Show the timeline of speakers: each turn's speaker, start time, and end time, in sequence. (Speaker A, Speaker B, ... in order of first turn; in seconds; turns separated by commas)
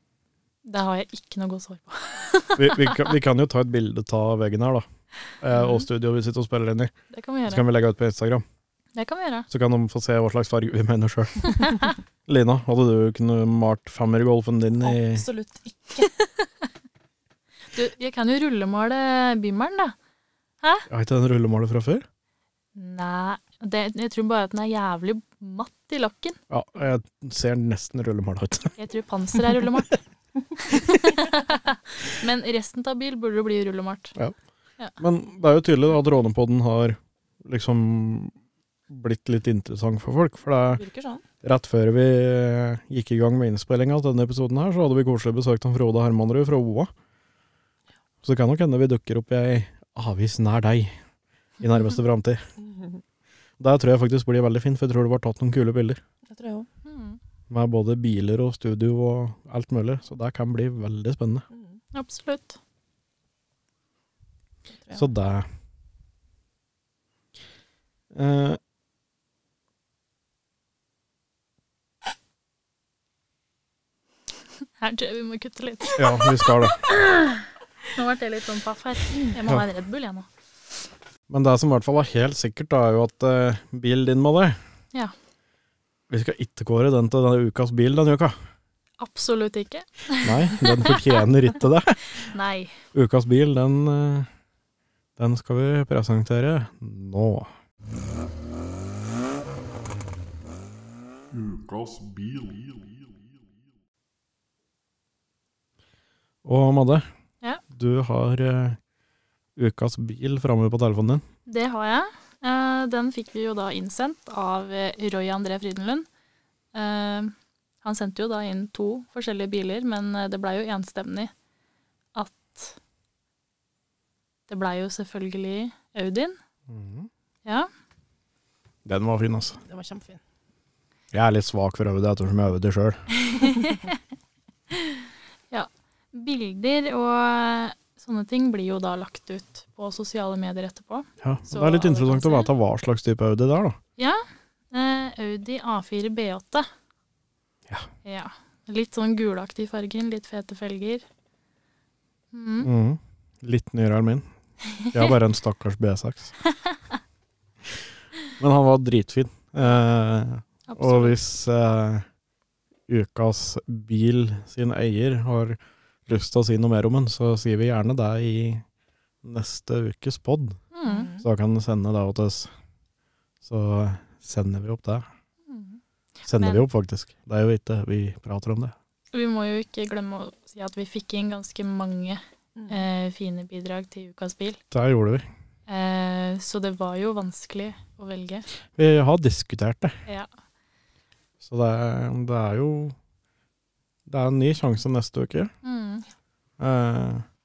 Speaker A: 0.6-3.0, Speaker B: 2.5-4.8, Speaker B: 5.4-6.9, Speaker A: 7.1-7.6, Speaker B: 7.5-8.4, Speaker A: 8.9-9.5, Speaker B: 9.5-11.7, Speaker B: 12.2-15.2, Speaker C: 14.8-16.1, Speaker A: 17.7-19.9, Speaker B: 20.9-22.0, Speaker A: 22.7-26.4, Speaker B: 26.5-28.7, Speaker A: 28.8-30.0, Speaker A: 30.6-34.1, Speaker B: 35.0-38.3, Speaker B: 38.9-40.8, Speaker C: 40.8-41.2, Speaker B: 41.4-46.9, Speaker B: 48.2-51.0, Speaker B: 51.6-52.5, Speaker C: 52.6-53.0, Speaker B: 53.6-56.0, Speaker C: 56.2-56.7, Speaker A: 56.8-57.2, Speaker B: 57.5-61.4, Speaker C: 61.5-61.8, Speaker A: 61.9-62.6, Speaker B: 64.9-65.5, Speaker B: 68.1-68.6, Speaker A: 74.8-76.5, Speaker B: 76.0-76.8, Speaker A: 77.1-77.4, Speaker A: 77.9-80.3, Speaker B: 81.3-84.6, Speaker B: 86.1-88.3, Speaker A: 89.0-91.0, Speaker B: 90.2-92.0, Speaker A: 92.2-92.7, Speaker B: 92.9-94.3, Speaker B: 95.2-97.5, Speaker D: 101.3-103.5, Speaker B: 106.4-107.1, Speaker B: 107.7-108.8, Speaker B: 109.5-111.2, Speaker A: 111.5-116.1, Speaker A: 116.7-121.3, Speaker A: 122.1-122.8, Speaker A: 124.5-126.4, Speaker B: 126.7-127.1, Speaker B: 128.8-129.6, Speaker C: 129.7-130.2, Speaker B: 131.1-133.1, Speaker A: 133.2-134.0, Speaker A: 134.7-142.5, Speaker B: 141.2-143.8, Speaker A: 144.0-146.7, Speaker A: 148.0-151.0, Speaker A: 152.3-152.7, Speaker B: 152.6-154.2, Speaker B: 154.9-156.3, Speaker B: 158.4-162.1, Speaker A: 160.7-161.2, Speaker B: 162.9-168.6, Speaker B: 169.2-170.6, Speaker A: 170.7-171.1, Speaker C: 170.8-171.2, Speaker B: 171.2-172.5, Speaker B: 173.4-175.1, Speaker A: 175.5-176.6, Speaker B: 176.2-178.7, Speaker A: 179.1-184.6, Speaker B: 184.7-185.3, Speaker A: 185.7-188.4, Speaker B: 188.8-190.0, Speaker B: 191.4-192.9, Speaker B: 194.1-195.5, Speaker A: 195.6-196.0, Speaker B: 196.6-197.2